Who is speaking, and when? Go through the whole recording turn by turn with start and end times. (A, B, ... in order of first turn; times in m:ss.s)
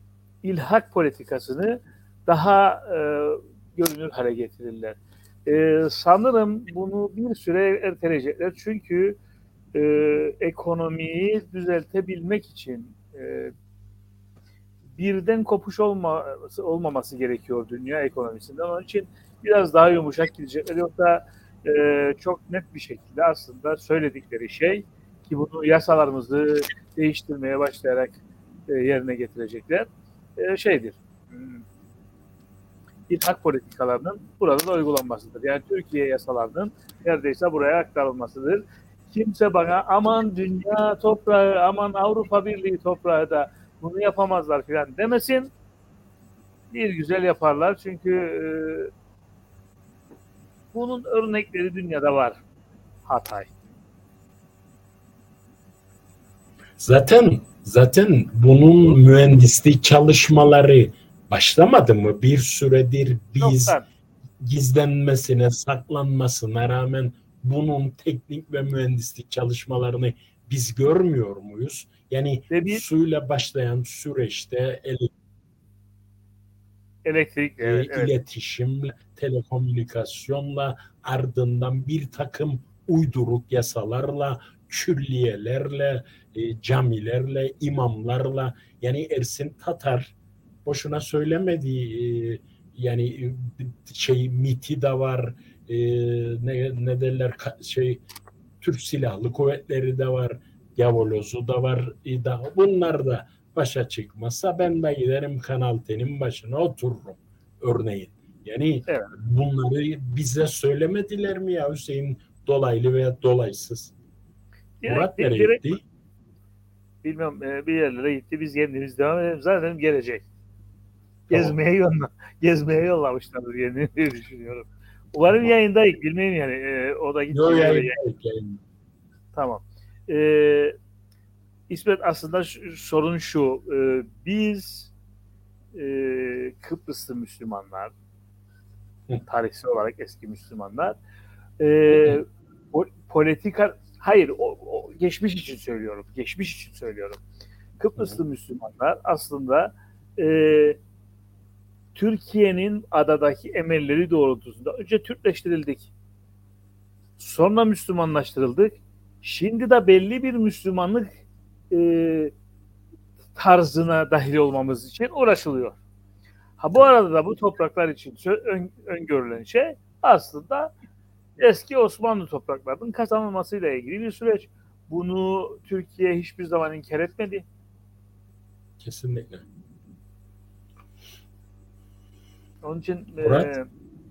0:00.4-0:09.2 A
0:09.7-0:13.5 A
0:15.0-0:31.6 A
0:33.1-0:45.5 A
0:46.7-0:48.9 A
0:50.7-0:52.4 A
0:53.1-0:53.5 A
0:56.8-1:03.8 B
1:03.4-1:03.8 A
1:04.4-1:15.1 B
1:12.5-1:12.8 A
1:17.0-1:18.1 A
1:17.6-1:30.1 B
1:30.6-1:38.0 B
1:38.6-1:53.9 B
1:48.9-1:49.1 A
1:54.8-1:55.6 A
1:54.8-1:55.8 B
1:57.0-2:00.2 A
2:01.3-2:01.5 B
2:01.3-2:08.0 A
2:07.3-2:08.6 B
2:09.3-2:10.8 A
2:11.7-2:14.9 A
2:15.7-2:17.9 A
2:19.3-2:21.0 A
2:21.6-2:27.2 A
2:27.8-2:30.8 A
2:31.9-2:35.9 A
2:37.2-2:41.1 A
2:41.7-2:42.3 A
2:43.4-2:45.8 A
2:46.6-2:50.7 A
2:51.4-2:57.4 A
2:58.8-2:59.4 B
3:02.6-3:03.6 A
3:03.2-3:03.5 B